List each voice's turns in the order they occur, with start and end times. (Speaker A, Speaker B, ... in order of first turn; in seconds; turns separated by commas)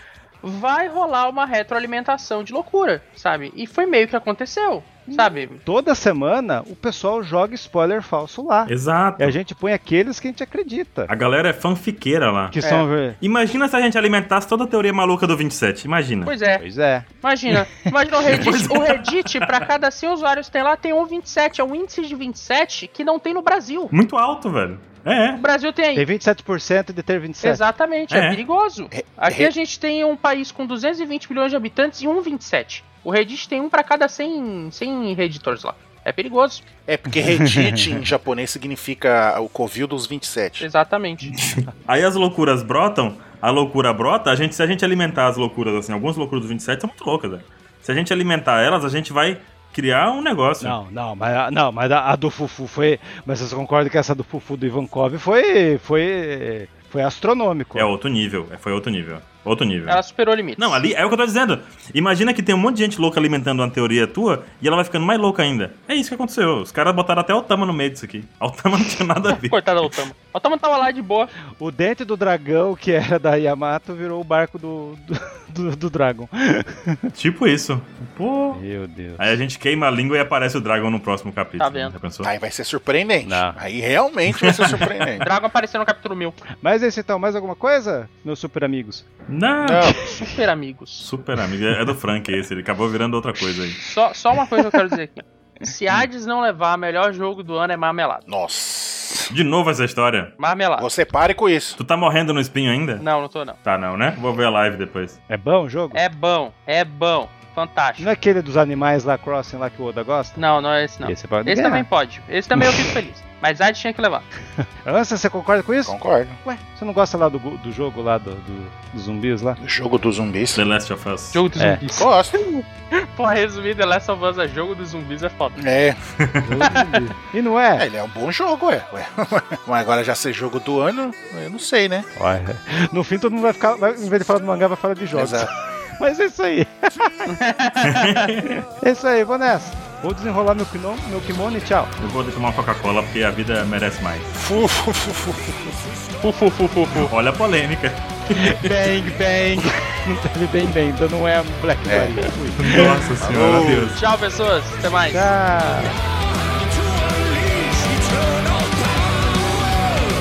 Speaker A: 0.4-5.6, Speaker B: 5.1-11.1, Speaker C: 8.7-9.3, Speaker C: 11.1-12.6, Speaker B: 12.5-13.2, Speaker C: 13.2-16.3, Speaker A: 16.2-16.6, Speaker B: 16.6-17.1, Speaker A: 17.2-23.9, Speaker C: 18.3-19.6, Speaker C: 23.9-25.4, Speaker A: 25.4-26.0, Speaker B: 25.9-27.6, Speaker A: 27.4-36.6, Speaker C: 28.1-28.4, Speaker D: 28.9-29.5, Speaker D: 36.9-40.7, Speaker B: 37.4-37.8, Speaker A: 40.6-41.5, Speaker C: 41.4-50.8, Speaker B: 50.6-57.9, Speaker C: 57.7-60.0, Speaker A: 59.9-60.8, Speaker C: 60.6-69.9, Speaker A: 69.5-71.3, Speaker B: 71.6-77.1, Speaker C: 77.1-78.6, Speaker B: 78.5-79.4, Speaker C: 79.2-82.3, Speaker A: 81.6-81.9, Speaker D: 82.2-85.2, Speaker B: 83.2-83.6, Speaker C: 84.3-85.2, Speaker A: 85.2-86.4, Speaker B: 86.6-89.0, Speaker C: 89.3-90.0, Speaker D: 89.6-90.0, Speaker A: 90.0-91.1, Speaker B: 90.0-90.3, Speaker C: 91.0-93.8, Speaker A: 93.8-98.3, Speaker D: 98.3-99.3, Speaker C: 99.3-100.3, Speaker A: 100.4-100.9, Speaker D: 100.8-101.8, Speaker C: 101.8-103.0, Speaker A: 103.0-103.6, Speaker C: 103.6-105.2, Speaker B: 105.3-106.0, Speaker A: 105.9-108.1, Speaker B: 108.0-110.4, Speaker A: 110.4-114.2, Speaker B: 111.0-111.9, Speaker B: 112.5-113.0, Speaker B: 114.8-119.6, Speaker D: 115.8-116.4, Speaker D: 119.6-120.6, Speaker C: 120.5-121.4, Speaker A: 121.3-125.6, Speaker B: 121.6-121.8, Speaker D: 122.0-122.4, Speaker D: 125.5-126.0, Speaker C: 126.2-126.5, Speaker B: 126.4-127.8, Speaker A: 126.6-127.1, Speaker D: 127.8-132.1, Speaker B: 132.2-137.1, Speaker D: 135.1-135.5, Speaker A: 137.3-138.4, Speaker C: 137.8-138.5, Speaker B: 138.7-141.9, Speaker C: 142.0-144.3, Speaker D: 144.4-145.8, Speaker A: 146.2-147.1, Speaker C: 146.9-148.9, Speaker B: 148.3-153.7, Speaker D: 151.8-152.3, Speaker C: 152.6-154.0, Speaker D: 153.2-154.0, Speaker A: 153.9-155.3, Speaker B: 155.1-156.0, Speaker B: 156.9-159.3